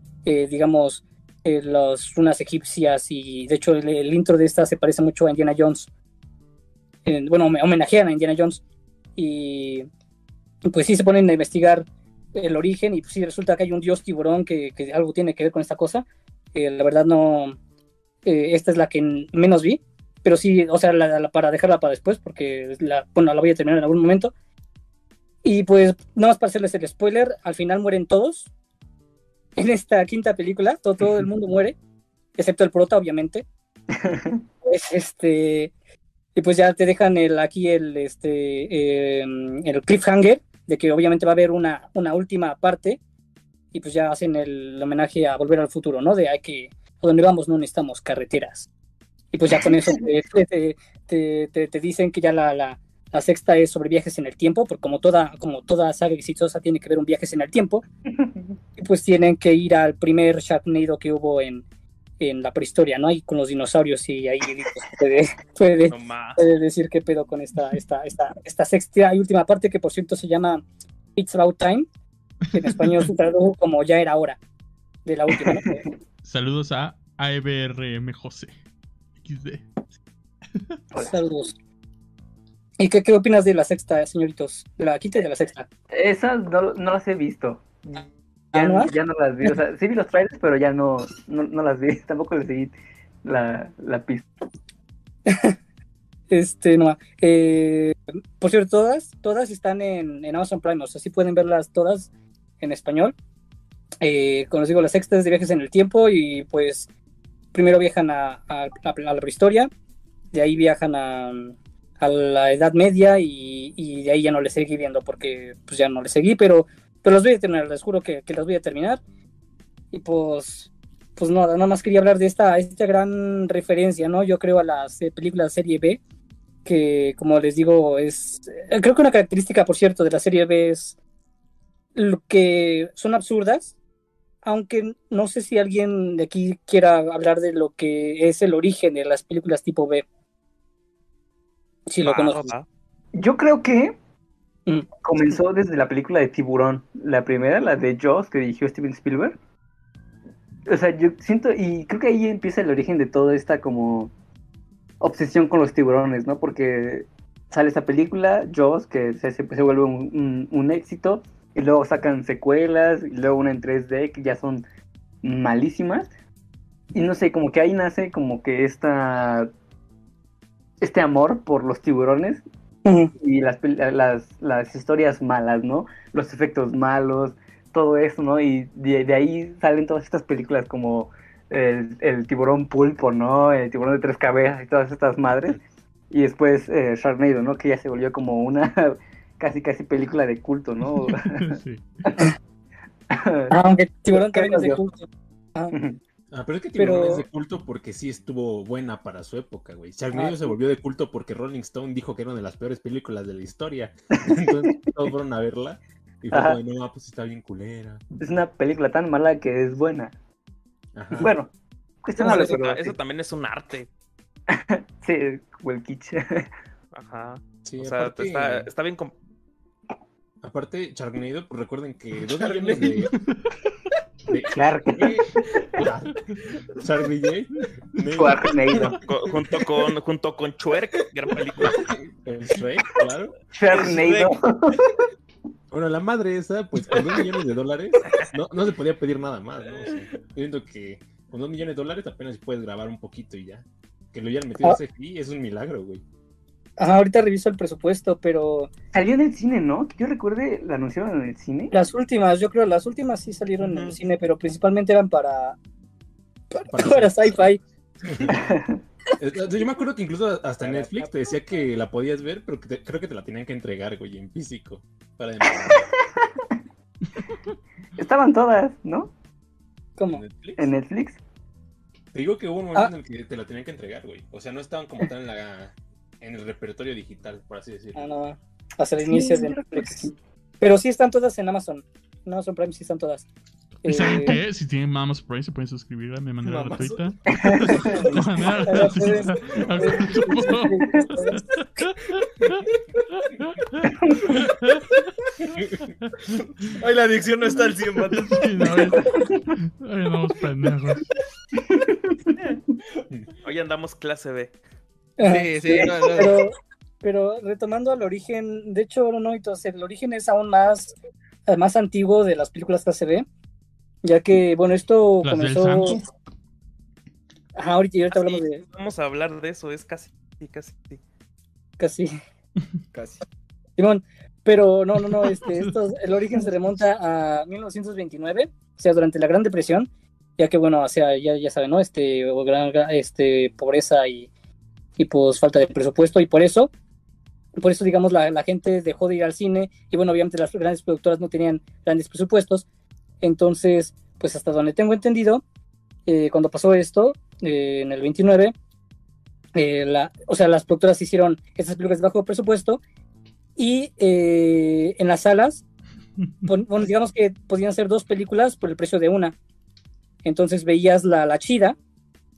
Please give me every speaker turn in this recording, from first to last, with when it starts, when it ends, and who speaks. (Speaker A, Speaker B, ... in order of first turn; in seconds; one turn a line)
Speaker A: 0.2-5.9
Speaker A: 7.0-8.6
Speaker A: 9.2-9.9
Speaker A: 10.7-17.6
Speaker A: 18.2-24.3
Speaker A: 25.4-28.5
Speaker A: 29.6-31.8
Speaker A: 32.4-33.4
Speaker B: 33.9-34.4
Speaker A: 34.6-35.7
Speaker A: 36.4-43.0
Speaker A: 43.7-48.7
Speaker A: 49.3-57.8
Speaker B: 49.5-50.0
Speaker B: 58.1-58.5
Speaker A: 58.8-61.6
Speaker A: 62.2-70.6
Speaker C: 65.9-66.4
Speaker A: 71.2-71.9
Speaker A: 72.5-74.4
Speaker A: 75.0-75.8
Speaker B: 75.3-75.8
Speaker D: 76.2-78.5
Speaker D: 79.2-79.7
Speaker A: 81.0-81.5
Speaker A: 82.8-85.7
Speaker B: 85.9-94.2
Speaker A: 88.5-88.9
Speaker A: 95.3-95.5
Speaker A: 96.3-102.1
Speaker A: 102.6-103.1
Speaker A: 104.0-106.9
Speaker A: 107.5-109.7
Speaker A: 110.3-119.0
Speaker A: 119.9-126.0
Speaker A: 126.6-130.9
Speaker A: 131.9-133.7
Speaker A: 134.4-140.0
Speaker A: 141.9-142.5
Speaker C: 142.0-142.7
Speaker B: 143.1-144.0
Speaker B: 145.0-149.4
Speaker B: 150.7-154.1
Speaker B: 155.0-164.6
Speaker B: 165.2-166.1
Speaker B: 166.9-169.5
Speaker B: 170.8-172.4
Speaker A: 172.8-173.1
Speaker B: 173.2-185.6
Speaker B: 186.1-191.5
Speaker D: 191.2-191.8
Speaker B: 193.1-193.6
Speaker A: 193.5-195.7
Speaker B: 194.1-194.8
Speaker B: 195.7-196.0
Speaker E: 196.3-208.0
Speaker A: 196.8-197.2
Speaker B: 200.1-200.6
Speaker B: 204.6-205.1
Speaker B: 206.3-206.6
Speaker B: 208.2-210.1
Speaker E: 210.9-211.3
Speaker B: 211.2-211.5
Speaker B: 212.0-212.9
Speaker C: 212.2-213.9
Speaker A: 212.2-212.5
Speaker B: 214.5-216.5
Speaker C: 216.9-219.1
Speaker E: 217.6-218.7
Speaker E: 220.4-223.1
Speaker F: 222.3-223.1
Speaker E: 224.3-226.2
Speaker B: 224.5-225.8
Speaker E: 226.8-229.0
Speaker B: 228.1-229.0
Speaker C: 229.1-231.9
Speaker E: 231.6-233.3
Speaker B: 233.5-234.8
Speaker C: 233.8-234.1
Speaker E: 235.7-246.0
Speaker F: 236.9-237.2
Speaker A: 246.8-248.7
Speaker B: 248.9-251.7
Speaker A: 251.7-255.6
Speaker E: 253.6-253.9
Speaker A: 256.5-257.6
Speaker E: 256.6-257.5
Speaker E: 258.0-258.4
Speaker B: 258.3-258.8
Speaker E: 259.2-266.0
Speaker B: 265.4-266.2
Speaker B: 268.0-269.1
Speaker A: 270.0-270.2
Speaker E: 270.1-270.7
Speaker B: 270.6-271.2
Speaker E: 272.1-278.1
Speaker A: 277.9-280.1
Speaker B: 279.0-280.1
Speaker A: 280.6-283.2
Speaker A: 283.8-284.4
Speaker D: 283.8-292.6
Speaker F: 286.4-288.5
Speaker B: 287.3-288.0
Speaker A: 288.6-291.4
Speaker D: 293.1-295.0
Speaker B: 293.9-294.2
Speaker F: 296.8-298.9
Speaker D: 298.1-301.0
Speaker B: 301.7-302.3
Speaker C: 303.4-304.5
Speaker A: 305.2-306.5
Speaker F: 305.3-306.4
Speaker A: 307.0-310.9
Speaker A: 311.5-313.2
Speaker A: 314.0-316.0
Speaker D: 315.2-316.0
Speaker A: 317.5-318.6
Speaker C: 318.1-321.0
Speaker A: 321.8-322.1
Speaker F: 322.9-323.2
Speaker A: 323.8-334.3
Speaker A: 335.0-336.7
Speaker A: 337.6-342.6
Speaker A: 343.2-345.4
Speaker A: 346.1-348.5
Speaker A: 349.6-352.8
Speaker A: 353.6-355.6
Speaker A: 356.4-359.3
Speaker A: 360.2-361.8